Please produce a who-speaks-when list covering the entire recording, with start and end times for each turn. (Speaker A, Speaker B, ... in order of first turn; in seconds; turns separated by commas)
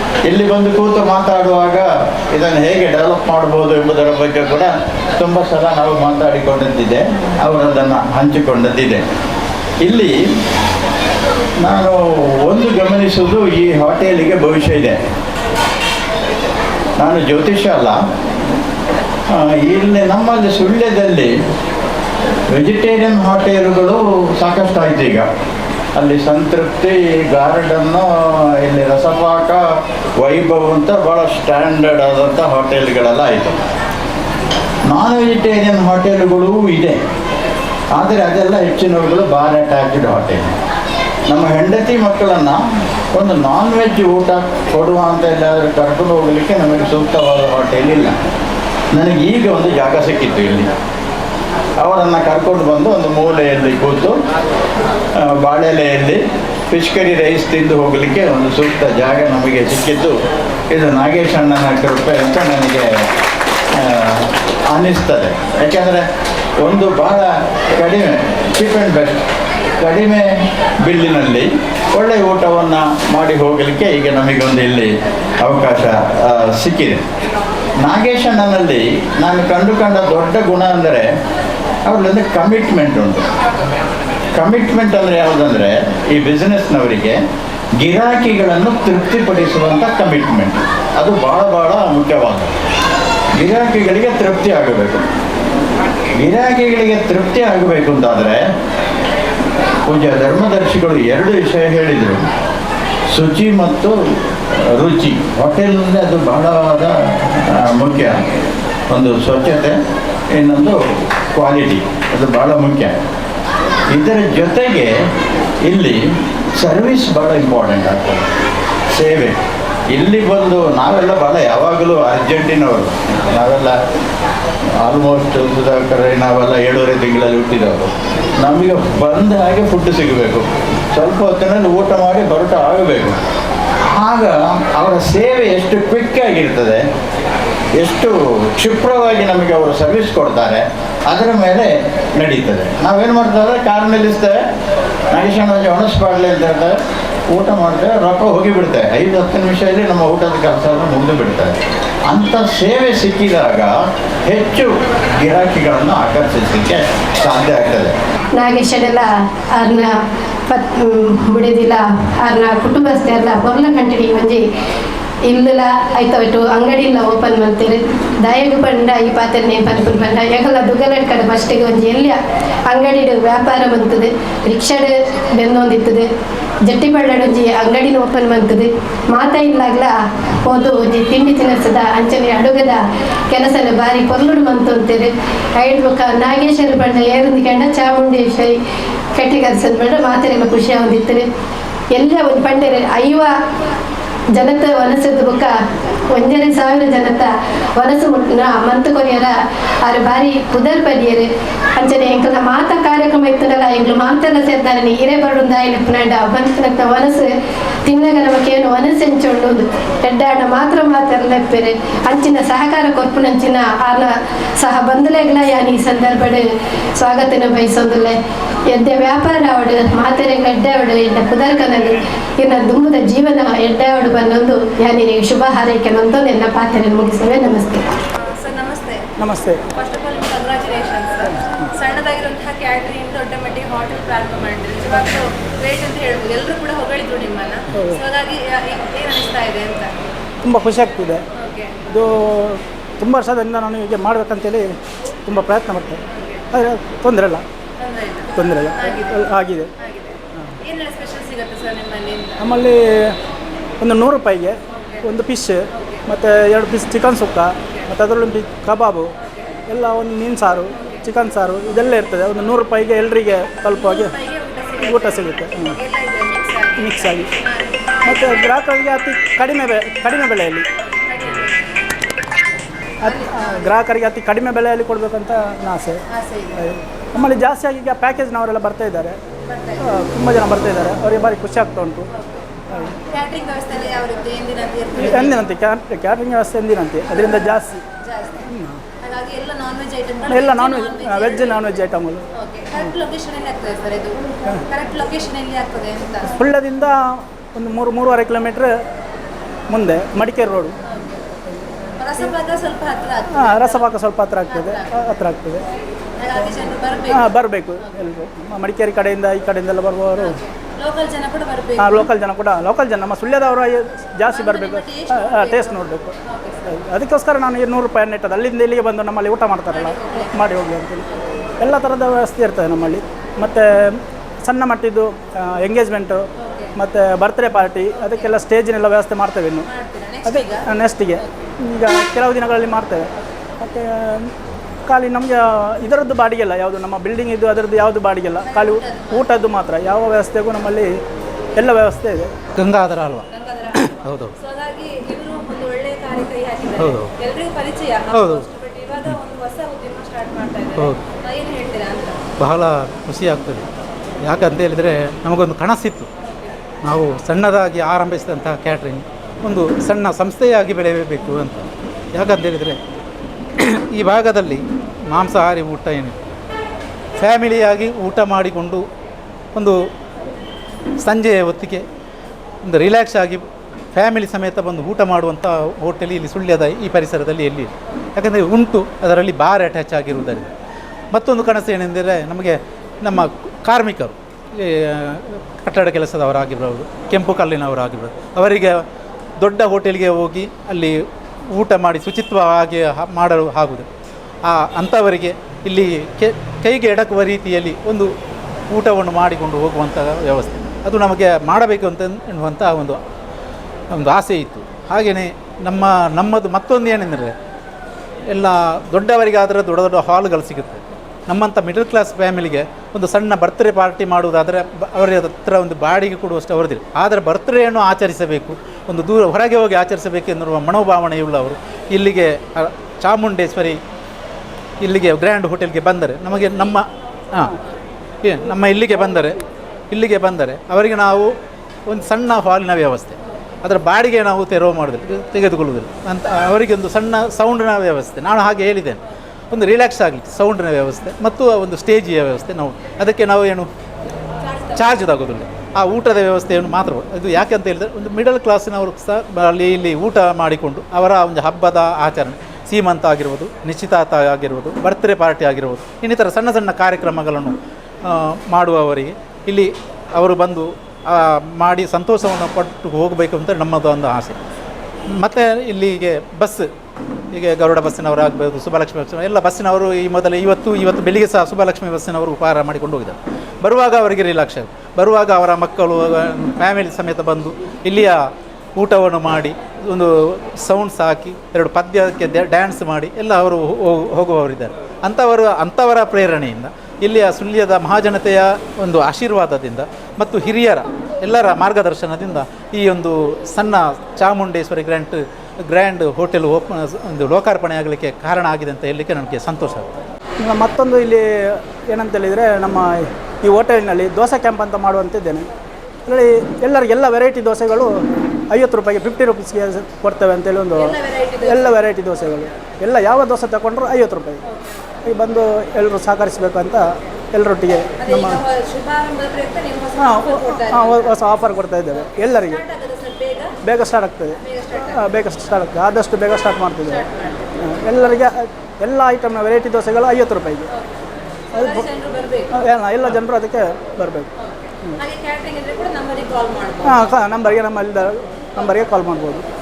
Speaker A: 0.3-9.0, Speaker A: 9.8-10.1, Speaker A: 11.6-15.0, Speaker A: 17.0-18.0, Speaker A: 19.3-21.3, Speaker A: 22.5-25.3, Speaker A: 25.9-29.6, Speaker A: 30.2-33.6, Speaker A: 34.9-37.0, Speaker A: 37.9-40.5, Speaker A: 41.3-42.6, Speaker A: 43.1-48.1, Speaker A: 48.9-50.7, Speaker A: 51.8-54.2, Speaker A: 55.2-56.2, Speaker A: 56.7-60.1, Speaker A: 60.7-63.0, Speaker A: 63.7-66.0, Speaker A: 66.6-69.2, Speaker A: 69.8-70.2, Speaker A: 70.8-74.9, Speaker A: 75.4-77.0, Speaker A: 77.8-81.0, Speaker A: 81.8-83.2, Speaker A: 84.3-87.2, Speaker A: 87.8-92.5, Speaker A: 93.4-95.0, Speaker A: 96.2-98.4, Speaker A: 99.9-102.2, Speaker A: 103.1-103.9, Speaker A: 104.6-108.2, Speaker A: 108.9-109.7, Speaker A: 110.3-110.8, Speaker A: 111.3-113.0, Speaker A: 113.9-114.9, Speaker A: 115.6-116.0, Speaker A: 116.6-118.2, Speaker A: 118.9-119.4, Speaker A: 119.9-123.7, Speaker A: 124.8-133.2, Speaker A: 133.9-136.8, Speaker A: 137.8-144.3, Speaker A: 145.1-146.7, Speaker A: 147.3-151.6, Speaker A: 152.1-153.7, Speaker A: 154.2-157.9, Speaker B: 158.4-159.9, Speaker B: 160.5-164.4, Speaker B: 165.3-172.2, Speaker B: 172.7-176.1, Speaker B: 176.7-188.6, Speaker B: 189.1-191.2, Speaker B: 191.9-193.3, Speaker B: 194.3-195.5, Speaker B: 196.1-199.3, Speaker B: 199.8-207.3, Speaker B: 207.8-216.4, Speaker B: 217.0-218.2, Speaker B: 218.7-227.8, Speaker C: 228.2-229.0, Speaker D: 229.2-229.6, Speaker C: 229.7-239.9, Speaker D: 240.4-241.2, Speaker C: 241.3-241.8, Speaker D: 241.9-244.7, Speaker D: 245.2-246.0, Speaker C: 246.1-246.4, Speaker D: 246.5-247.4, Speaker C: 247.8-252.5, Speaker D: 248.3-249.7, Speaker D: 252.4-253.1, Speaker D: 253.8-259.1, Speaker C: 254.8-255.1, Speaker C: 255.8-256.0, Speaker D: 259.7-264.1, Speaker C: 263.7-268.6, Speaker D: 264.9-265.7, Speaker D: 266.8-267.3, Speaker D: 268.1-270.6, Speaker C: 271.0-271.8, Speaker C: 273.0-273.8, Speaker D: 273.1-276.0, Speaker C: 276.1-276.7, Speaker D: 276.6-279.2, Speaker C: 279.4-280.0, Speaker D: 279.9-282.1, Speaker C: 282.1-285.5, Speaker D: 285.0-287.8, Speaker C: 288.0-288.4, Speaker D: 288.5-288.8, Speaker C: 289.0-291.8, Speaker D: 290.3-292.2, Speaker C: 292.3-296.3, Speaker D: 296.4-298.7, Speaker D: 299.7-300.7, Speaker C: 300.9-301.2, Speaker C: 302.0-303.9, Speaker D: 303.4-305.6, Speaker C: 304.5-305.1, Speaker C: 306.2-307.9, Speaker D: 307.1-310.4, Speaker C: 310.2-312.1, Speaker D: 311.8-316.1, Speaker C: 314.3-316.8, Speaker D: 316.7-321.0, Speaker C: 319.7-321.7, Speaker D: 321.6-329.6, Speaker C: 326.4-326.8, Speaker C: 328.1-328.4, Speaker C: 329.6-330.7, Speaker D: 330.3-334.3, Speaker D: 334.9-341.0, Speaker C: 338.4-339.3, Speaker D: 341.6-342.3, Speaker E: 342.6-343.2, Speaker C: 343.3-352.2, Speaker E: 343.8-344.3, Speaker E: 346.8-347.1, Speaker E: 348.1-348.4, Speaker E: 352.4-353.7, Speaker E: 354.2-356.1, Speaker E: 356.9-362.8, Speaker E: 363.6-366.1, Speaker E: 367.2-368.9, Speaker E: 369.5-369.9, Speaker E: 371.0-371.8, Speaker E: 372.6-380.5, Speaker E: 381.1-388.8, Speaker E: 389.4-393.9, Speaker E: 394.4-398.1, Speaker E: 398.7-403.0, Speaker E: 403.9-407.3, Speaker E: 408.3-423.8, Speaker E: 424.8-427.6, Speaker E: 428.2-429.4, Speaker E: 429.9-431.3, Speaker E: 431.9-439.0, Speaker E: 439.5-443.7, Speaker C: 444.4-445.0, Speaker E: 444.7-464.4, Speaker E: 465.1-466.7, Speaker E: 467.3-499.9, Speaker D: 500.4-505.5, Speaker D: 506.1-507.9, Speaker D: 508.5-510.9, Speaker C: 510.8-511.9, Speaker D: 511.5-514.4, Speaker D: 515.1-518.4, Speaker C: 518.0-521.4, Speaker D: 520.0-522.6, Speaker C: 522.0-523.5, Speaker D: 523.6-524.4, Speaker C: 524.4-525.2, Speaker D: 524.9-527.0, Speaker C: 526.8-527.5, Speaker D: 527.6-530.7, Speaker C: 531.5-532.5, Speaker D: 532.5-534.3, Speaker C: 534.4-537.2, Speaker D: 536.9-539.4